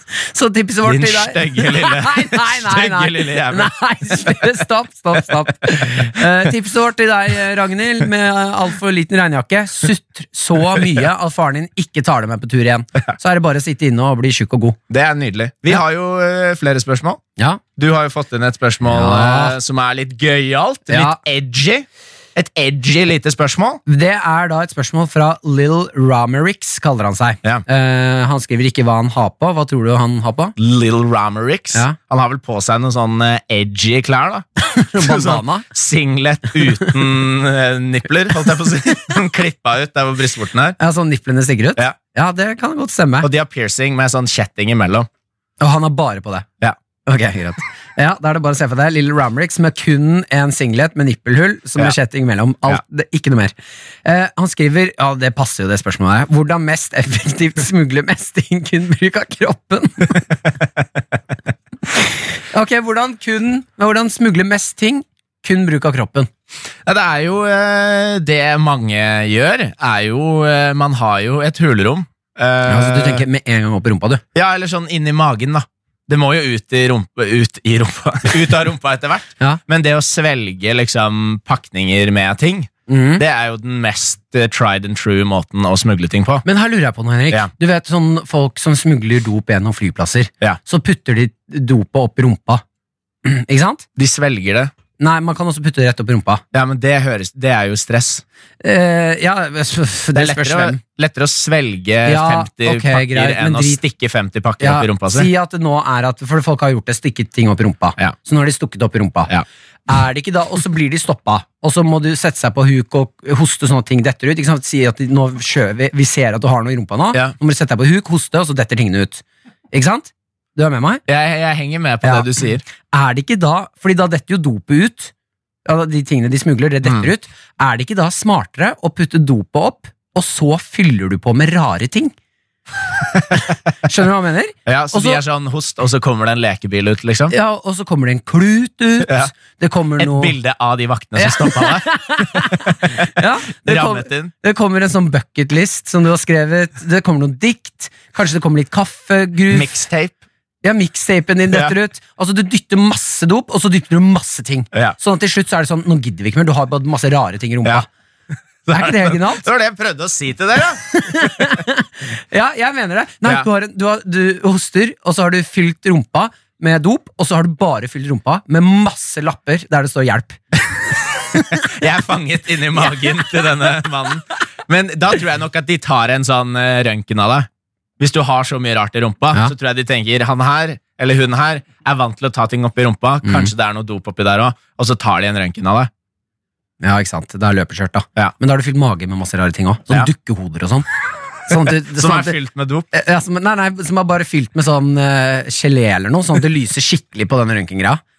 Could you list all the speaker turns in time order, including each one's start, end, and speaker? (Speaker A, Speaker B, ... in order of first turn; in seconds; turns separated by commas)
Speaker A: 0.1-14.8, Speaker B: 0.8-3.7, Speaker B: 14.9-17.2, Speaker B: 17.8-23.8, Speaker A: 18.9-19.6, Speaker A: 20.9-21.2, Speaker A: 23.9-30.6, Speaker B: 30.6-40.8, Speaker A: 34.6-35.7, Speaker A: 40.8-43.3, Speaker B: 43.2-45.1, Speaker A: 45.6-46.5, Speaker A: 47.0-53.5, Speaker A: 54.0-60.2, Speaker A: 62.5-66.3, Speaker B: 66.9-73.2, Speaker A: 72.7-74.2, Speaker B: 74.3-86.4, Speaker A: 82.9-83.2, Speaker A: 86.5-92.6, Speaker A: 93.2-93.8, Speaker B: 94.0-94.7, Speaker A: 95.0-96.4, Speaker B: 96.5-98.2, Speaker A: 98.6-100.8, Speaker B: 100.2-105.3, Speaker A: 102.1-103.8, Speaker A: 104.6-109.3, Speaker A: 109.9-121.0, Speaker B: 121.1-122.6, Speaker A: 122.9-125.1, Speaker A: 125.7-132.2, Speaker A: 133.8-135.2, Speaker B: 134.7-137.3, Speaker A: 137.3-140.4, Speaker B: 139.1-139.3, Speaker B: 140.0-144.3, Speaker A: 141.2-149.8, Speaker B: 149.5-150.2, Speaker A: 150.6-157.9, Speaker B: 158.7-161.5, Speaker A: 158.7-159.4, Speaker A: 160.9-170.4, Speaker B: 171.5-177.5, Speaker B: 178.0-185.9, Speaker A: 183.2-183.5, Speaker A: 186.8-190.9, Speaker A: 191.5-192.4, Speaker B: 191.8-192.9, Speaker A: 192.9-198.0